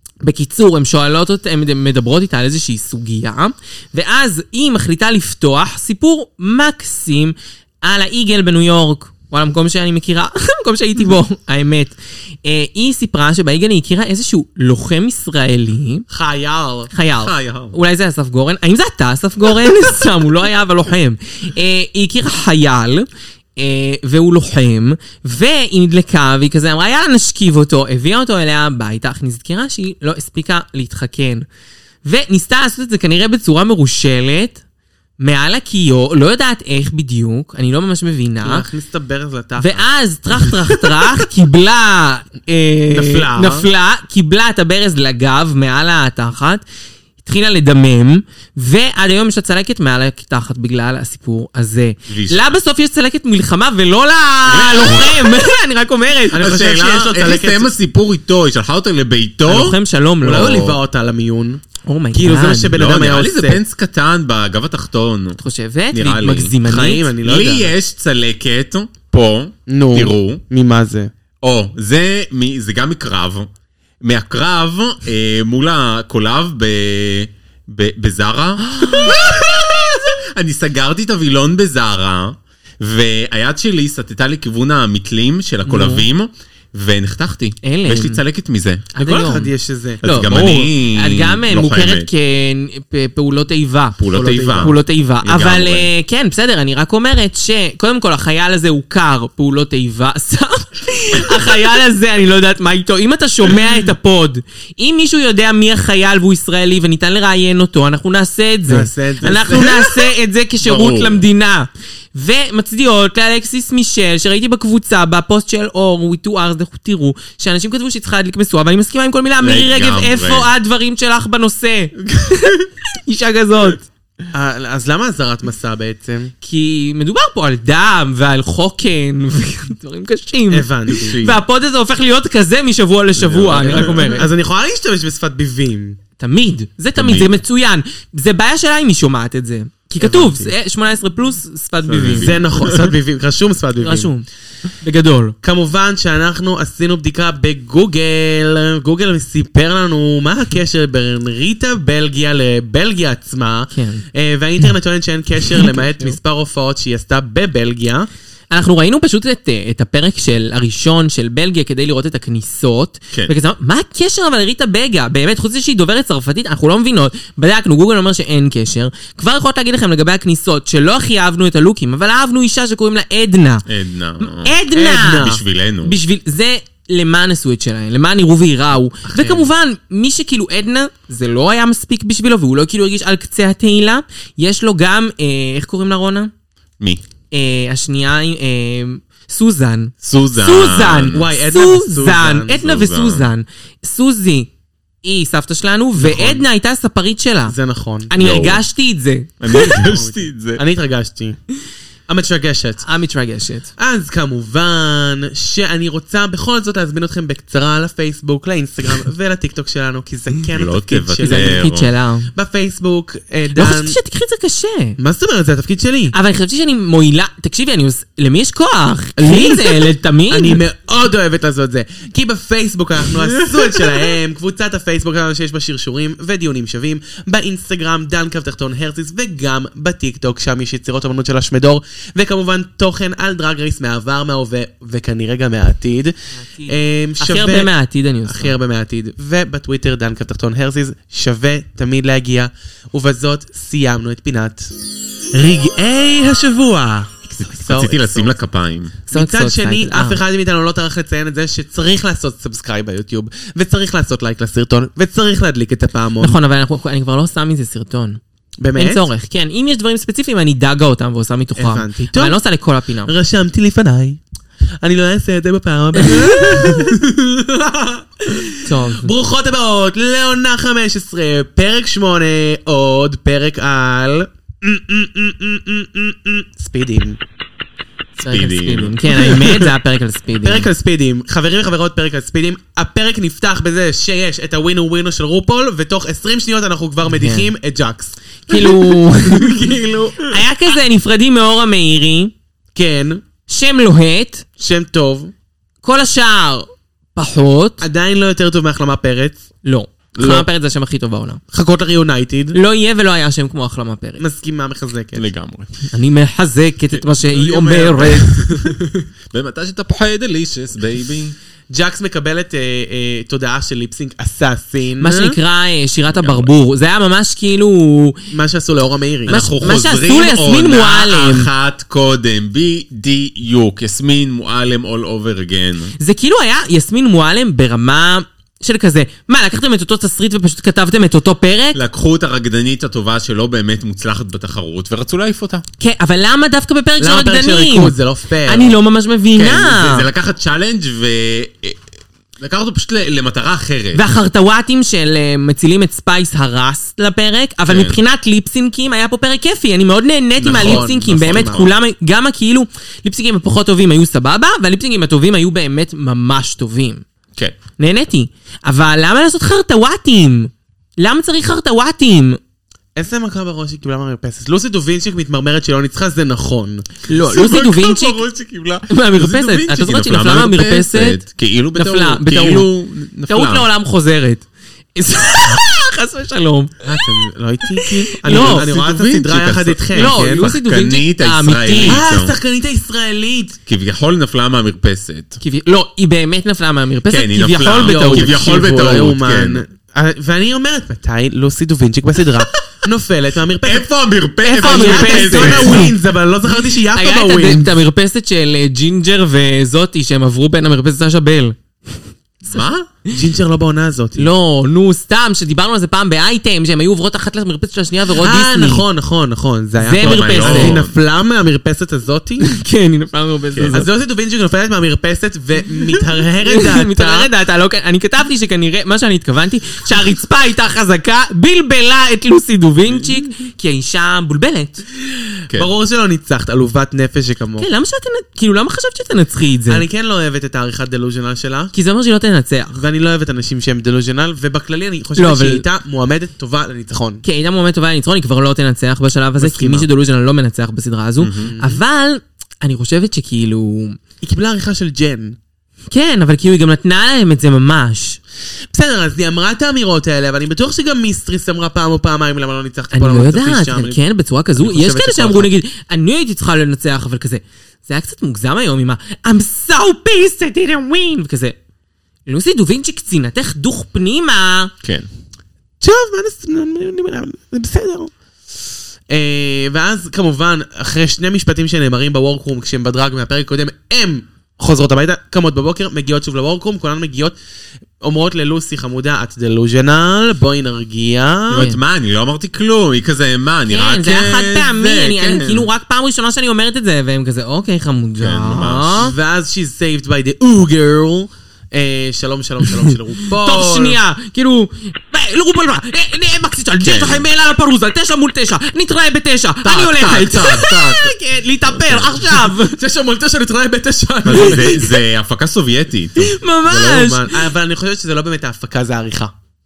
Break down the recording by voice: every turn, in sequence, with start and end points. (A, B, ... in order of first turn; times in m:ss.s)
0:00.2-0:16.0 A
0:16.1-0:16.9 B
0:16.9-0:31.4 A
0:17.2-0:17.8 C
0:32.0-0:34.6 A
0:35.2-0:38.6 A
0:38.4-0:39.8 B
0:39.6-0:46.6 A
0:42.9-0:43.6 B
0:47.2-0:56.4 A
0:52.1-0:52.5 C
0:54.4-0:55.3 C
0:56.3-0:57.7 B
0:56.4-0:59.8 C
0:59.4-1:00.7 A
1:00.2-1:01.6 B
1:00.3-1:00.8 C
1:01.8-1:02.8 A
1:02.1-1:03.6 B
1:02.7-1:05.4 C
1:05.4-1:07.1 A
1:05.9-1:06.5 C
1:06.6-1:07.7 B
1:07.2-1:10.4 C
1:09.7-1:11.1 B
1:11.4-1:13.5 C
1:14.0-1:28.9 C
1:18.7-1:19.2 A
1:25.6-1:26.0 A
1:27.6-1:28.2 A
1:28.9-1:29.5 A
1:29.0-1:30.0 B
1:30.0-1:32.1 C
1:30.0-2:03.8 A
1:34.0-1:35.9 C
1:34.1-1:34.7 B
1:48.7-1:50.0 B
1:50.6-1:51.2 C
1:59.4-2:00.5 C
2:04.3-2:06.3 B
2:06.4-2:14.3 A
2:10.5-2:11.2 B
2:11.0-2:11.4 C
2:13.2-2:16.0 B
2:13.5-2:14.1 C
2:16.2-2:22.3 A
2:17.0-2:17.3 C
2:20.0-2:20.5 B
2:21.9-2:22.9 C
2:22.1-2:24.1 B
2:23.8-2:24.2 A
2:24.8-2:25.3 A
2:25.4-2:38.1 B
2:33.7-2:34.0 A
2:35.5-2:36.2 A
2:38.5-2:53.6 A
2:53.6-2:56.0 C
2:54.2-3:06.3 A
2:54.7-2:55.4 B
2:59.0-2:59.5 B
3:07.3-3:14.5 A
3:10.0-3:11.2 C
3:11.1-3:12.6 B
3:12.5-3:13.3 C
3:15.0-3:17.5 A
3:16.0-3:16.4 B
3:17.5-3:18.1 B
3:18.1-3:19.8 A
3:18.2-3:18.6 C
3:19.4-3:20.6 C
3:19.6-3:21.4 B
3:22.1-3:22.8 B
3:22.8-3:23.7 A
3:23.8-3:31.7 B
3:30.5-3:31.9 C
3:31.2-3:32.3 A
3:32.3-3:34.0 B
3:33.5-3:35.0 A
3:35.0-3:36.1 B
3:36.1-3:40.6 A
3:39.2-3:57.7 B
3:43.3-3:43.7 C
3:56.4-3:58.5 A
3:58.2-4:04.7 B
4:05.3-4:08.3 B
4:07.6-4:08.9 C
4:09.1-4:16.4 B
4:09.1-4:10.2 A
4:16.2-4:18.2 A
4:18.6-4:19.1 B
4:18.8-4:23.1 A
4:21.6-4:22.4 B
4:23.0-4:24.2 B
4:24.8-4:37.2 B
4:26.0-4:26.8 A
4:28.6-4:29.1 A
4:38.2-4:40.7 A
4:38.2-4:39.0 C
4:39.3-4:39.7 B
4:40.4-4:48.7 B
4:47.1-4:47.5 A
4:48.5-4:49.6 A
4:49.2-4:50.3 B
4:49.4-4:49.8 C
4:50.2-4:52.3 A
4:52.7-4:53.2 B
4:53.5-4:54.4 A
4:54.6-4:55.3 B
4:55.8-4:57.8 A
4:57.8-4:59.4 B
4:59.6-5:01.4 A
5:00.2-5:00.4 B
5:01.5-5:02.6 B
5:02.5-5:04.2 A
5:04.2-5:05.2 B
5:05.1-5:05.8 C
5:05.9-5:08.4 A
5:06.9-5:11.3 C
5:08.3-5:08.9 B
5:11.7-5:15.4 B
5:15.0-5:18.2 A
5:16.1-5:16.5 C
5:18.3-5:19.4 B
5:19.3-5:25.9 C
5:19.3-5:21.5 A
5:26.0-5:31.8 A
5:31.7-5:35.6 C
5:35.8-5:37.9 A
5:37.0-5:38.8 B
5:38.4-5:40.1 A
5:39.3-5:41.8 C
5:42.4-5:44.1 C
5:43.9-5:57.0 A
5:47.7-5:48.0 C
5:50.4-5:51.7 C
5:50.4-5:51.6 B
5:57.8-6:02.4 A
6:03.0-6:06.9 B
6:07.1-6:08.2 A
6:07.2-6:13.7 C
6:08.9-6:11.2 A
6:11.7-6:12.7 A
6:13.3-6:16.8 A
6:16.8-6:20.5 B
6:17.7-6:18.7 A
6:18.3-6:22.4 C
6:19.9-6:22.0 A
6:21.8-6:23.6 B
6:23.6-6:25.4 C
6:25.4-6:28.4 A
6:27.1-6:29.6 C
6:27.8-6:33.9 B
6:33.6-6:35.9 C
6:34.4-6:37.7 B
6:34.5-6:35.9 A
6:36.8-6:41.6 A
6:42.4-6:42.9 C
6:43.1-6:44.2 B
6:44.2-6:48.8 A
6:48.2-6:52.6 B
6:49.8-6:50.8 A
6:50.0-6:50.9 C
6:52.4-6:53.9 A
6:53.5-6:53.8 C
6:53.7-6:57.3 B
6:56.4-7:04.8 A
7:05.5-7:07.7 B
7:07.6-7:09.8 A
7:09.7-7:11.7 B
7:11.7-7:12.8 A
7:12.7-7:17.2 B
7:15.2-7:15.6 A
7:17.2-7:24.0 A
7:19.4-7:19.9 B
7:21.2-7:21.5 C
7:21.4-7:21.8 B
7:24.2-7:25.4 B
7:25.9-7:28.2 A
7:28.7-7:34.0 B
7:32.9-7:41.6 A
7:34.6-7:35.5 B
7:42.2-7:44.7 A
7:45.8-7:48.1 B
7:49.1-7:57.4 B
7:58.0-8:01.7 B
8:01.5-8:05.7 C
8:03.7-8:09.1 A
8:08.2-8:09.1 C
8:09.0-8:14.0 B
8:13.3-8:22.8 A
8:16.8-8:17.2 C
8:19.6-8:22.2 C
8:22.4-8:25.0 B
8:24.2-8:26.3 C
8:24.4-8:24.7 A
8:26.2-8:27.5 A
8:26.6-8:29.3 B